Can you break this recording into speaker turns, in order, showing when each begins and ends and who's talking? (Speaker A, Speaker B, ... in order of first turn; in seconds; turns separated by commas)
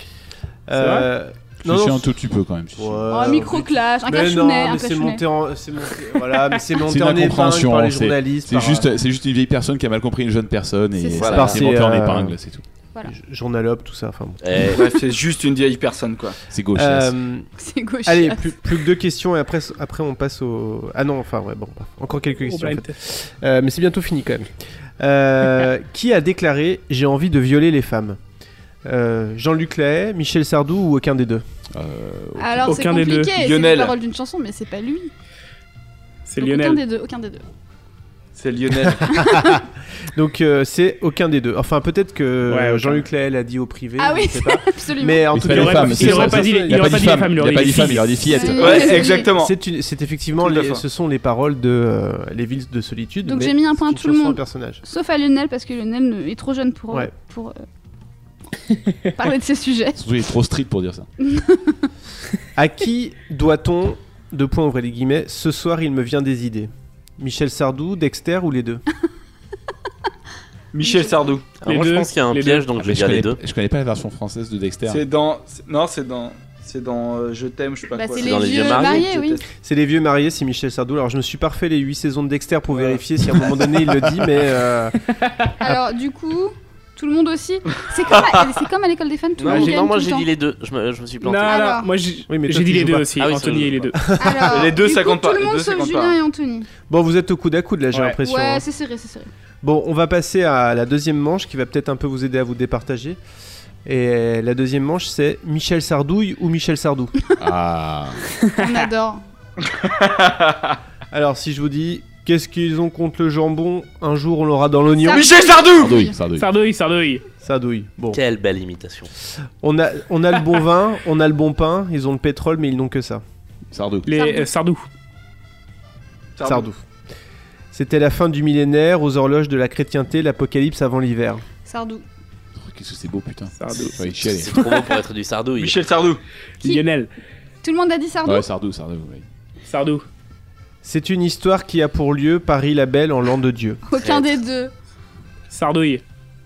Speaker A: 0.7-2.1, Speaker B: 0.8-1.1, Speaker C: 1.6-3.4, Speaker A: 2.8-8.9, Speaker D: 3.1-5.2, Speaker C: 6.8-12.6, Speaker D: 11.0-11.5, Speaker E: 11.2-11.6, Speaker A: 11.3-12.4, Speaker A: 13.1-14.7, Speaker E: 14.4-14.8, Speaker F: 14.7-16.4, Speaker C: 16.5-17.2, Speaker A: 16.8-17.5, Speaker D: 17.6-18.6, Speaker A: 18.1-28.2, Speaker B: 22.5-23.0, Speaker A: 28.9-31.4, Speaker C: 31.7-32.8, Speaker D: 32.4-35.1, Speaker B: 32.6-33.3, Speaker F: 33.4-34.0, Speaker B: 36.3-36.8, Speaker D: 36.4-37.4, Speaker F: 38.4-39.2, Speaker D: 39.1-39.6, Speaker A: 40.1-47.3, Speaker B: 42.5-43.0, Speaker D: 44.0-45.5, Speaker C: 45.3-49.1, Speaker B: 45.5-48.2, Speaker D: 48.3-49.3, Speaker F: 48.6-49.5, Speaker A: 49.3-54.8, Speaker F: 50.4-50.8, Speaker D: 53.2-57.6, Speaker D: 59.1-60.0, Speaker C: 60.0-61.1, Speaker D: 61.2-61.9, Speaker A: 62.5-68.8, Speaker F: 70.7-71.4, Speaker D: 70.8-71.1, Speaker E: 71.6-73.4, Speaker B: 71.7-72.7, Speaker C: 72.8-75.0, Speaker F: 74.9-79.4, Speaker D: 77.9-79.4, Speaker E: 78.2-79.0, Speaker A: 79.6-85.0, Speaker C: 83.4-84.0, Speaker B: 85.2-85.5, Speaker D: 85.6-90.3, Speaker E: 89.4-91.7, Speaker A: 89.5-89.9, Speaker B: 91.2-94.0, Speaker D: 91.5-91.9, Speaker A: 92.3-93.2, Speaker E: 93.2-94.0, Speaker A: 94.0-94.7, Speaker D: 94.2-96.7, Speaker F: 94.5-96.2, Speaker A: 96.9-98.7, Speaker B: 97.9-98.2, Speaker D: 98.2-99.3, Speaker A: 99.6-103.2, Speaker A: 103.8-107.2, Speaker C: 107.4-108.2, Speaker D: 108.6-109.2, Speaker F: 109.7-110.8, Speaker A: 111.1-115.3, Speaker D: 115.0-116.1, Speaker F: 115.1-116.0, Speaker C: 115.8-116.5, Speaker B: 116.4-117.2, Speaker A: 117.4-118.2, Speaker E: 118.1-119.1, Speaker A: 119.6-123.2, Speaker C: 123.7-124.2, Speaker B: 124.1-124.9, Speaker D: 124.1-124.5, Speaker F: 126.4-126.7, Speaker A: 126.4-126.8, Speaker A: 127.7-131.4, Speaker D: 131.6-132.0, Speaker C: 132.6-134.7, Speaker B: 133.6-134.0, Speaker E: 134.2-135.8, Speaker F: 135.6-136.2, Speaker B: 136.6-137.1, Speaker D: 137.6-138.4, Speaker C: 138.2-139.2, Speaker B: 139.7-140.1, Speaker A: 140.8-143.8, Speaker D: 143.8-144.7, Speaker E: 144.0-144.4, Speaker B: 145.5-146.0